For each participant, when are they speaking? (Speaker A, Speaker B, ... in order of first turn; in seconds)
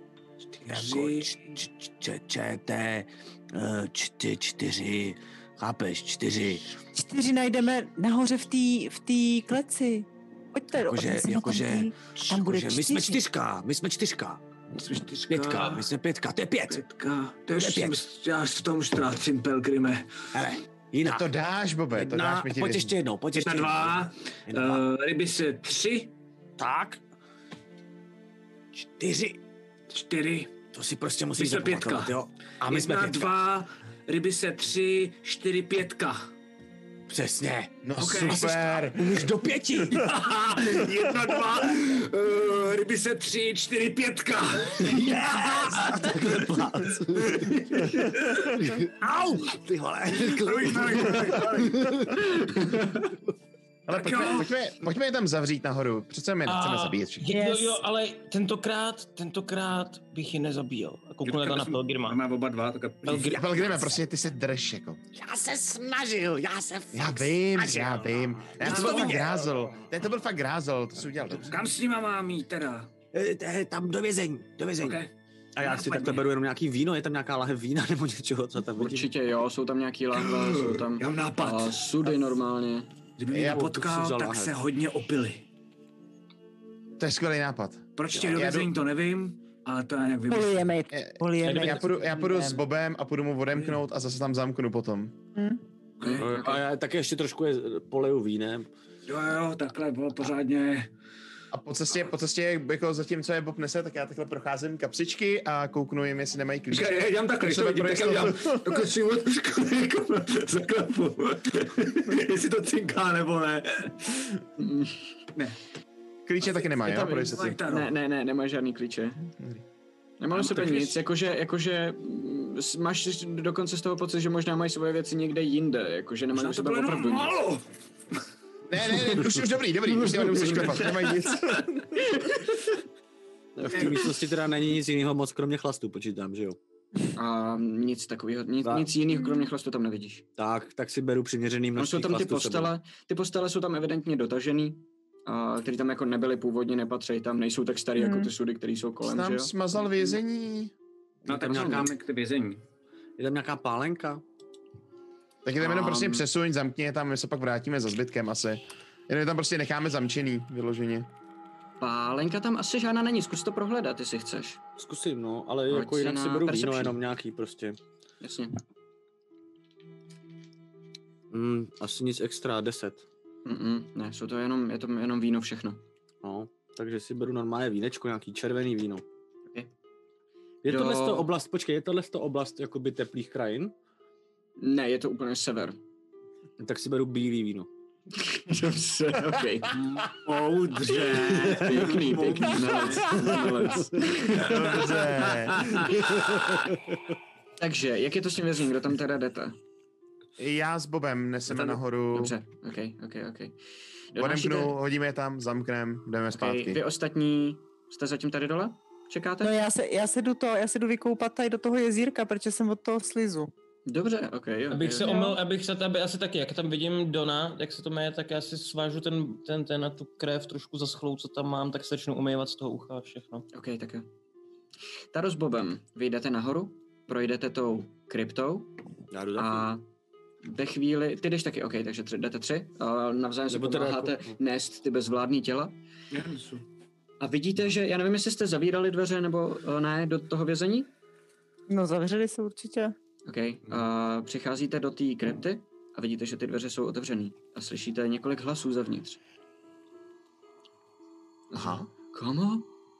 Speaker A: 0.5-1.4, 14.7-15.9, 16.7-20.1, 23.3-26.1, 29.9-30.5, 31.4-36.3, 38.0-38.6, 39.9-46.5, 47.2-48.0, 50.1-52.0, 53.9-54.5, 61.2-63.3, 68.6-69.3, 71.4-72.9, 74.8-76.2, 80.2-81.8, 83.2-85.4, 88.0-90.7, 99.1-100.9, 106.7-114.3, 117.2-117.9, 120.3-121.0, 126.3-127.6, 151.2-152.6, 189.7-192.4, 194.4-196.4, 201.5-201.7, 236.1-236.6
Speaker B: 0.7-6.7, 10.7-14.4, 15.3-16.8, 17.5-18.0, 20.3-21.2, 21.9-24.8, 26.6-27.0, 28.7-29.4, 30.7-33.3, 37.1-40.6, 44.8-52.8, 63.0-64.0, 65.1-69.4, 73.1-75.0, 75.5-79.1, 83.3-84.5, 96.0-98.7, 133.6-136.6, 140.4-142.7, 151.3-151.9, 153.2-154.2, 164.8-167.8, 171.3-173.0, 176.2-179.0, 180.6-183.7, 186.6-187.7, 191.1-194.0, 195.9-197.0, 229.1-229.7, 233.5-234.3
Speaker C: 6.9-13.2, 90.3-92.6, 95.3-95.6, 148.0-148.3, 209.4-213.5, 215.0-215.4, 241.7-242.9
Speaker D: 21.0-22.9, 37.8-39.3, 53.9-57.4, 63.3-65.0, 66.9-71.5, 83.3-83.6, 87.0-88.7, 90.9-95.1, 101.5-108.9, 116.2-117.6, 119.4-119.6, 128.7-132.0, 149.0-150.7, 155.4-161.1, 194.3-196.0, 200.4-202.3, 204.2-206.8, 251.5-251.9
Speaker E: 52.4-52.9, 78.8-82.9, 96.0-96.6, 114.6-115.0, 116.6-119.3, 120.2-127.3, 129.9-131.3, 132.0-132.5, 137.1-140.2, 141.8-150.2, 151.5-151.9, 155.6-156.2, 161.8-164.6, 165.7-166.9, 168.2-168.6, 173.4-175.8, 180.7-181.3, 184.6-185.8, 188.1-189.8, 191.3-194.9, 197.6-199.6, 202.1-203.6, 204.1-204.7, 206.3-209.6, 213.8-215.2, 223.5-224.1, 225.1-228.7, 229.3-229.8, 230.4-235.7, 237.2-240.9, 243.2-249.2, 251.5-252.7
Speaker F: 56.5-62.2, 63.0-63.4, 214.7-223.4